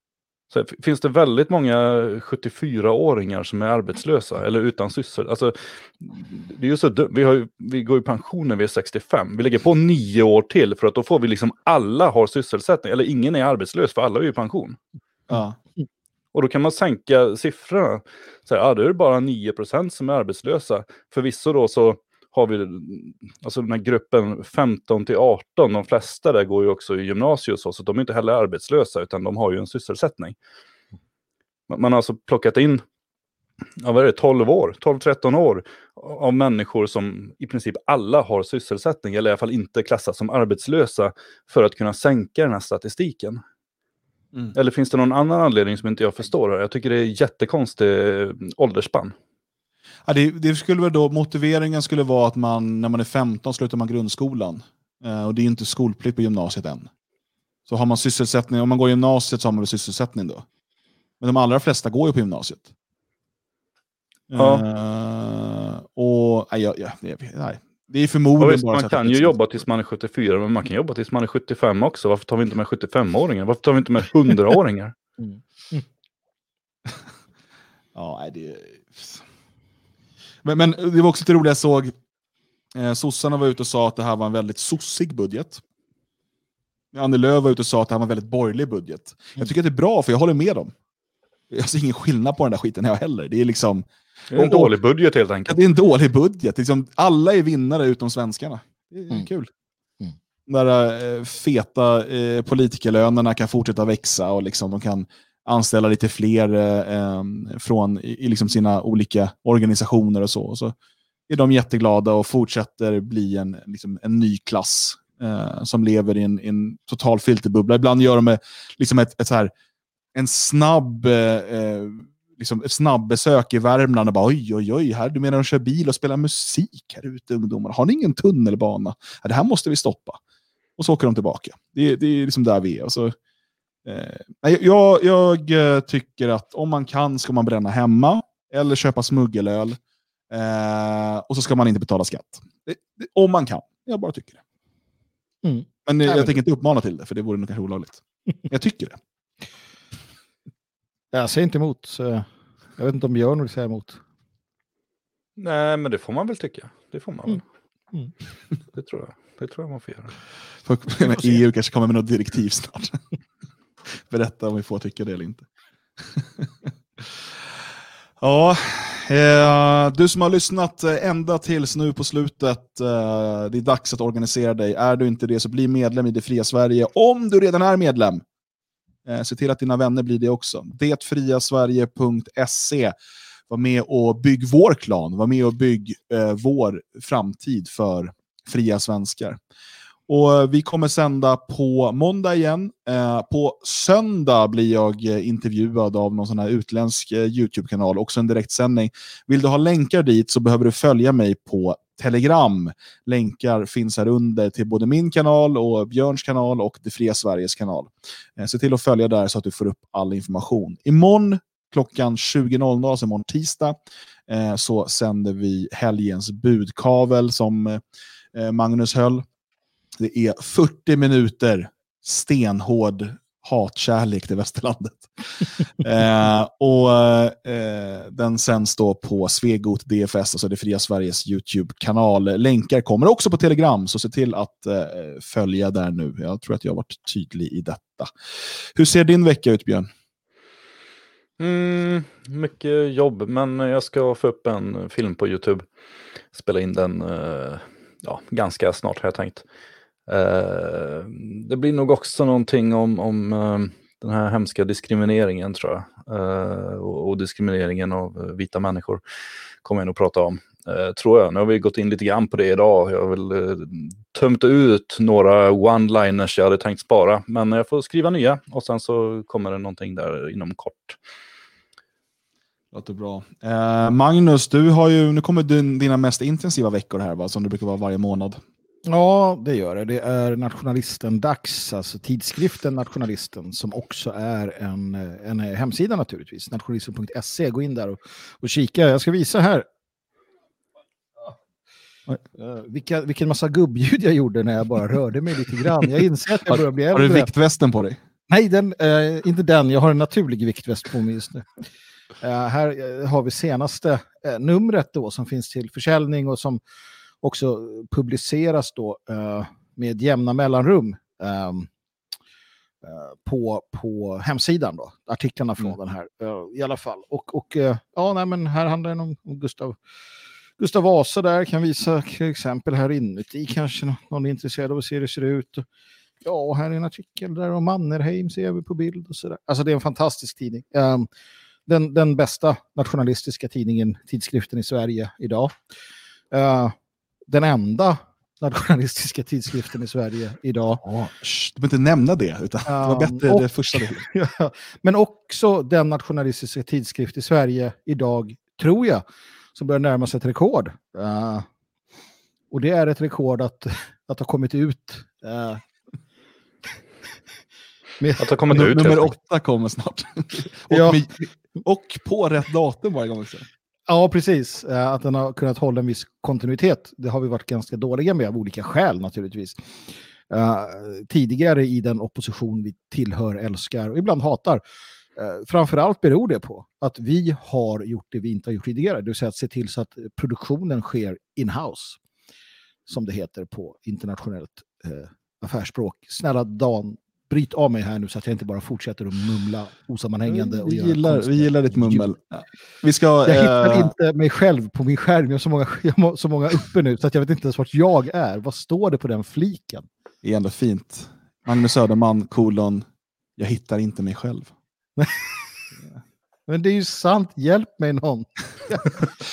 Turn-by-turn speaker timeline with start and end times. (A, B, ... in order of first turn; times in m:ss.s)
0:00.5-0:14.8 A
0:15.3-0:15.6 B
0:16.3-0:30.4 A
0:31.7-0:32.8 A
0:33.8-0:43.4 A
0:44.6-0:49.2 A
0:50.1-0:56.9 B
0:57.7-1:00.4 B
1:01.2-1:02.7 B
1:04.3-1:09.5 B
1:04.4-1:04.6 A
1:08.4-1:15.0 A
1:15.2-1:15.8 C
1:17.9-1:19.2 B
1:20.4-1:21.9 B
1:22.7-1:25.6 B
1:26.9-1:30.7 B
1:31.5-1:34.7 B
1:34.3-1:35.6 A
1:35.5-1:39.5 B
1:40.5-1:50.8 B
1:51.3-1:59.5 B
2:00.2-2:10.2 B
2:10.8-2:13.2 B
2:13.8-2:19.8 B
2:20.3-2:24.4 B
2:25.4-2:26.4 C
2:25.9-2:29.0 B
2:31.1-2:32.3 C
2:32.8-2:34.0 C
2:35.4-2:37.4 A
2:38.7-2:40.2 A
2:40.7-2:43.0 B
2:43.9-2:45.5 B
2:46.0-2:47.1 B
2:48.2-2:58.2 B
2:59.0-3:02.9 B
3:03.5-3:09.4 B
3:10.1-3:37.8 B
3:38.3-3:39.3 B
3:40.0-3:58.1 B
3:58.8-3:59.9 B
4:01.4-4:05.7 A
4:06.3-4:09.4 A
4:10.1-4:19.0 A
4:19.6-4:31.0 A
4:32.7-4:38.4 B
4:38.9-4:49.7 C
4:52.3-4:57.3 C
4:56.5-4:58.0 B
4:58.3-5:01.5 C
5:02.2-5:06.6 C
5:07.2-5:11.7 C
5:12.8-5:19.8 C
5:20.6-5:25.6 C
5:26.2-5:31.1 C
5:31.7-5:35.5 C
5:36.3-5:36.8 C
5:37.3-5:40.9 C
5:40.8-5:44.0 B
5:42.7-5:49.0 C
5:49.6-5:51.5 C
5:52.5-5:55.6 C
5:58.2-5:59.1 A
5:58.5-6:03.5 B
6:00.7-6:01.0 C
6:03.9-6:09.7 C
6:10.3-6:14.6 C
6:15.2-6:22.0 C
6:22.9-6:32.1 C
6:30.3-6:33.9 B
6:33.3-6:39.9 C
6:40.2-6:42.9 B
6:43.4-6:44.5 B
6:45.0-6:45.4 C
6:46.5-6:49.0 C